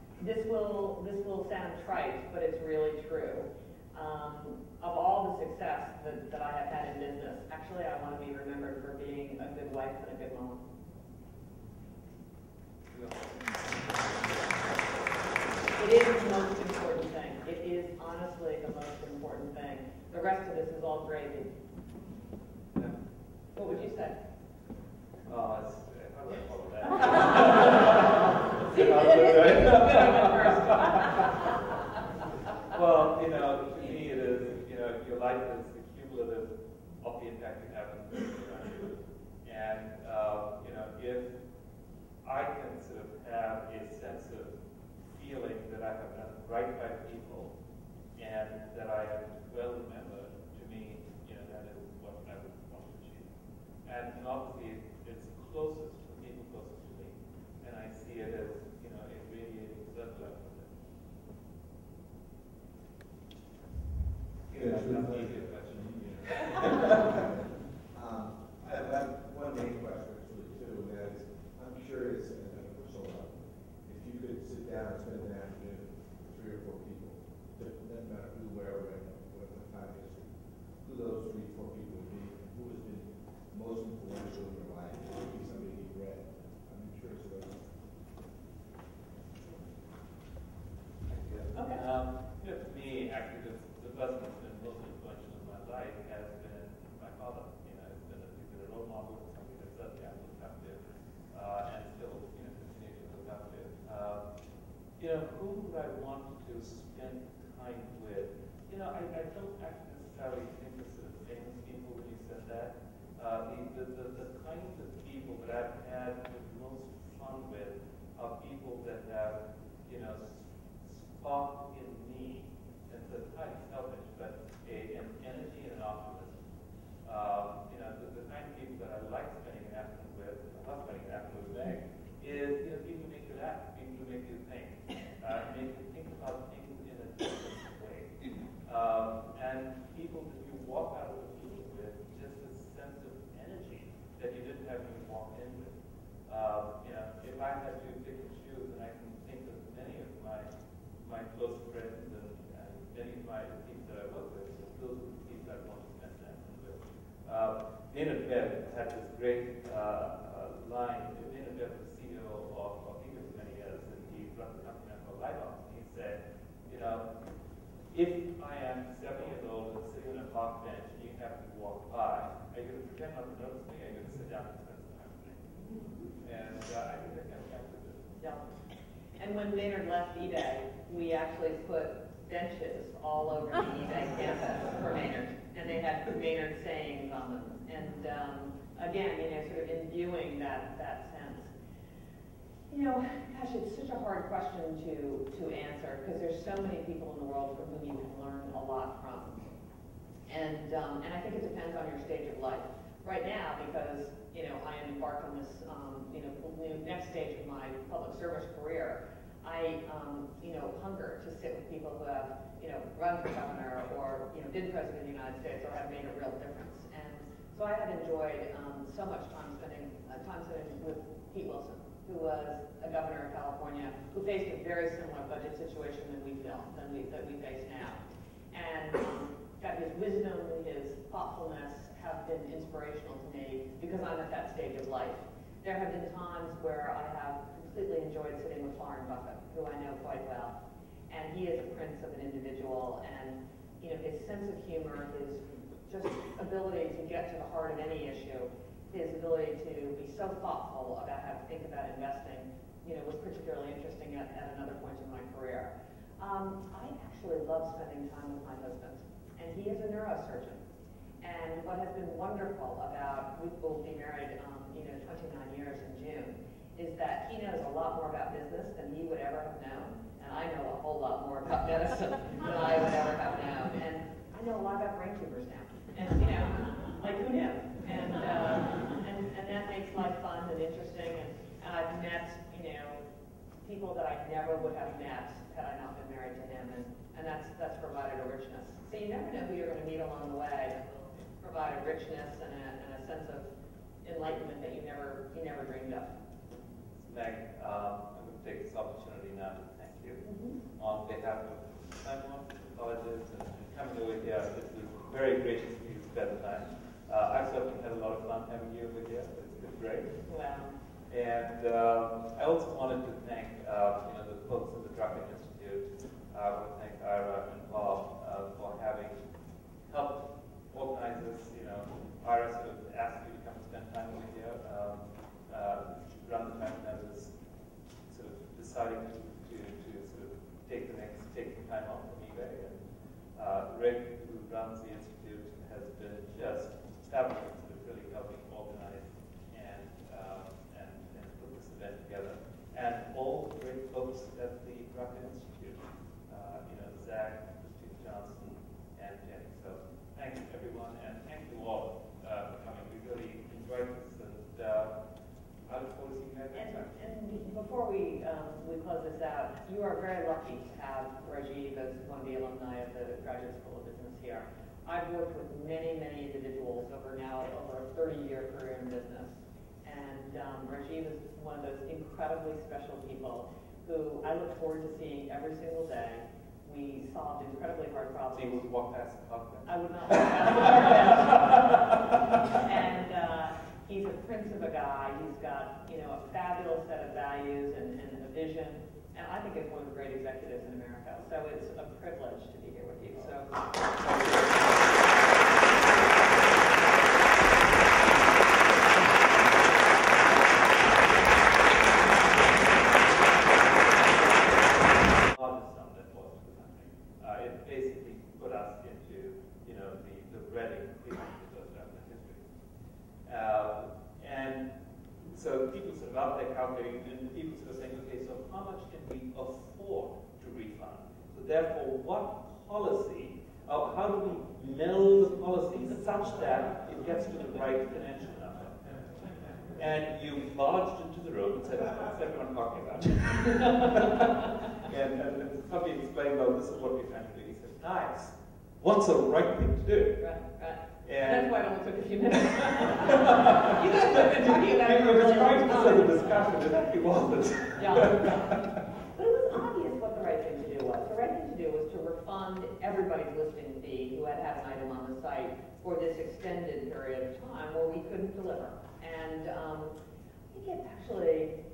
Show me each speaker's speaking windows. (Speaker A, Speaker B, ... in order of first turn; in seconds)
Speaker A: 0.2-10.7, 15.7-21.5, 23.6-24.2, 27.0-28.1, 28.6-31.5, 91.5-91.8, 179.2-191.5, 192.7-199.4, 200.3-228.0, 228.5-240.6, 241.1-260.6, 261.2-283.0, 283.6-293.5, 294.0-296.1, 300.2-300.6, 310.3-310.7, 356.5-378.6, 379.6-394.4, 440.2-446.3, 447.8-448.6, 449.1-459.9, 460.5-461.5
Speaker B: 12.9-14.3, 25.3-31.5, 32.7-41.4, 42.2-44.5, 45.1-47.5, 48.2-53.3, 53.9-60.7, 64.5-67.0, 91.1-104.2, 105.0-126.4, 127.0-145.8, 146.3-150.5, 151.0-167.1, 167.9-175.4, 176.2-178.2, 297.0-310.2, 311.1-319.2, 319.9-327.3, 328.1-354.9, 355.6-357.0, 378.3-382.0, 403.4-412.5, 413.2-414.7, 415.3-428.8, 429.7-440.2, 441.0-441.5, 442.6-448.8
Speaker C: 64.5-67.1, 67.9-87.7